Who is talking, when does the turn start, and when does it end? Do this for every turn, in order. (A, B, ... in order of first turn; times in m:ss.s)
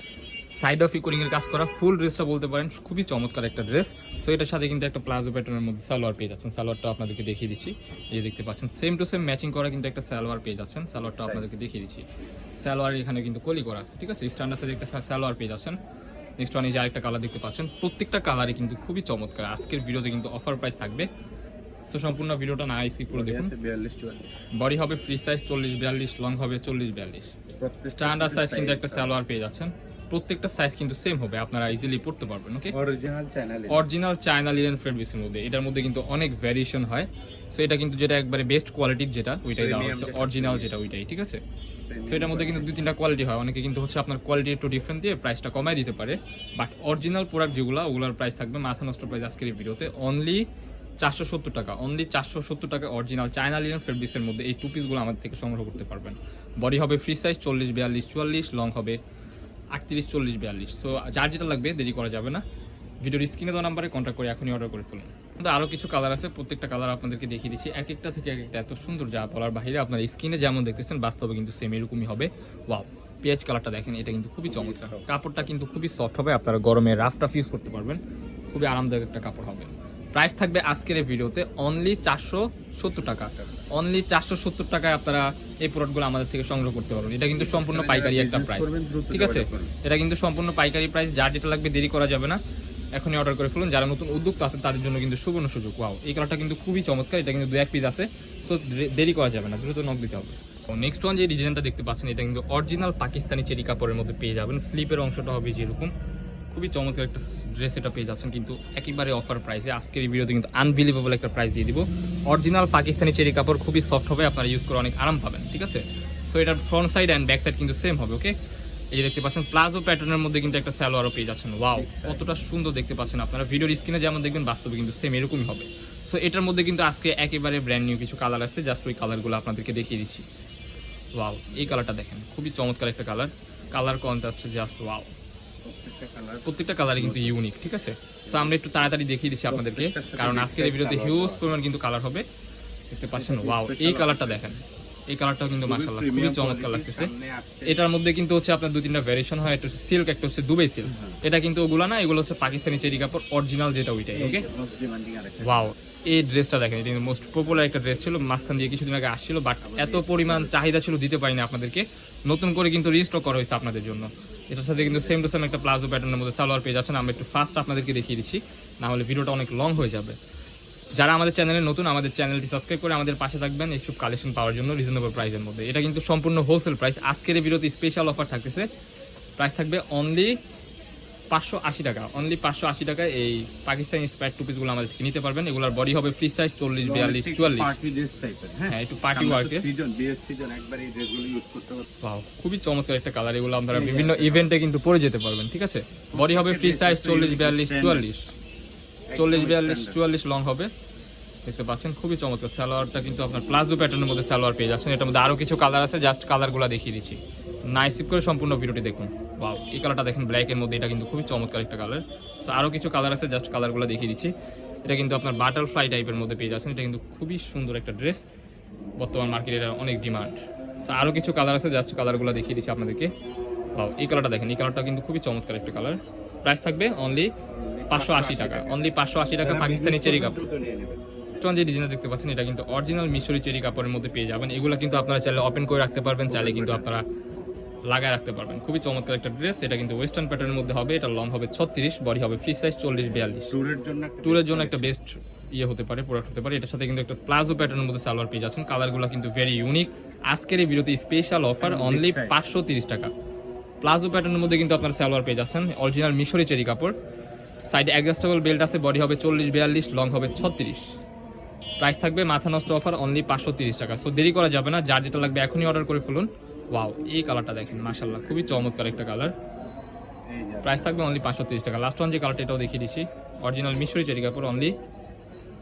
0:00.6-0:12.0 A
0:11.0-0:11.6 B
0:12.6-0:15.8 A
0:16.4-0:21.1 A
0:21.9-0:23.5 A
0:23.1-0:24.4 B
0:24.5-0:27.3 A
0:27.6-0:29.2 B
0:27.9-0:32.7 A
0:32.7-0:33.9 B
0:33.7-0:41.4 A
0:39.6-0:40.8 B
0:41.9-0:42.8 B
0:42.0-0:50.4 A
0:51.0-0:59.0 A
0:59.7-1:02.4 A
1:03.0-1:18.0 A
1:14.5-1:15.1 B
1:18.5-1:32.4 A
1:23.3-1:23.6 B
1:27.4-1:29.7 B
1:33.0-1:45.9 A
1:46.5-1:58.3 A
1:58.9-2:10.2 A
2:01.7-2:02.2 B
2:11.2-2:15.1 A
2:15.6-2:17.3 B
2:16.4-2:22.2 A
2:18.3-2:18.5 B
2:19.5-2:21.5 B
2:22.9-2:27.1 A
2:23.1-2:24.4 B
2:25.6-2:27.9 B
2:27.6-2:34.4 A
2:30.9-2:31.2 B
2:34.1-2:35.7 B
2:35.4-2:50.2 A
2:39.6-2:40.5 B
2:44.7-2:45.2 B
2:51.0-2:58.7 A
2:59.4-3:00.4 A
3:01.3-3:07.8 A
3:06.8-3:11.9 B
3:08.7-3:09.7 A
3:12.0-3:18.3 A
3:13.7-3:14.5 B
3:16.1-3:18.1 B
3:19.1-3:20.0 B
3:19.1-3:20.7 A
3:21.4-3:34.3 A
3:34.8-3:38.2 A
3:39.0-3:43.1 A
3:43.7-3:47.3 A
3:47.5-3:48.9 B
3:47.9-3:50.4 A
3:49.4-3:51.0 B
3:51.4-3:57.0 A
3:56.3-3:56.9 B
3:57.9-4:03.5 A
4:03.5-4:04.9 B
4:04.2-4:13.1 A
4:11.6-4:12.4 B
4:13.8-4:16.9 A
4:17.6-4:20.9 A
4:21.8-4:29.3 A
4:30.3-4:30.9 B
4:30.6-4:34.8 A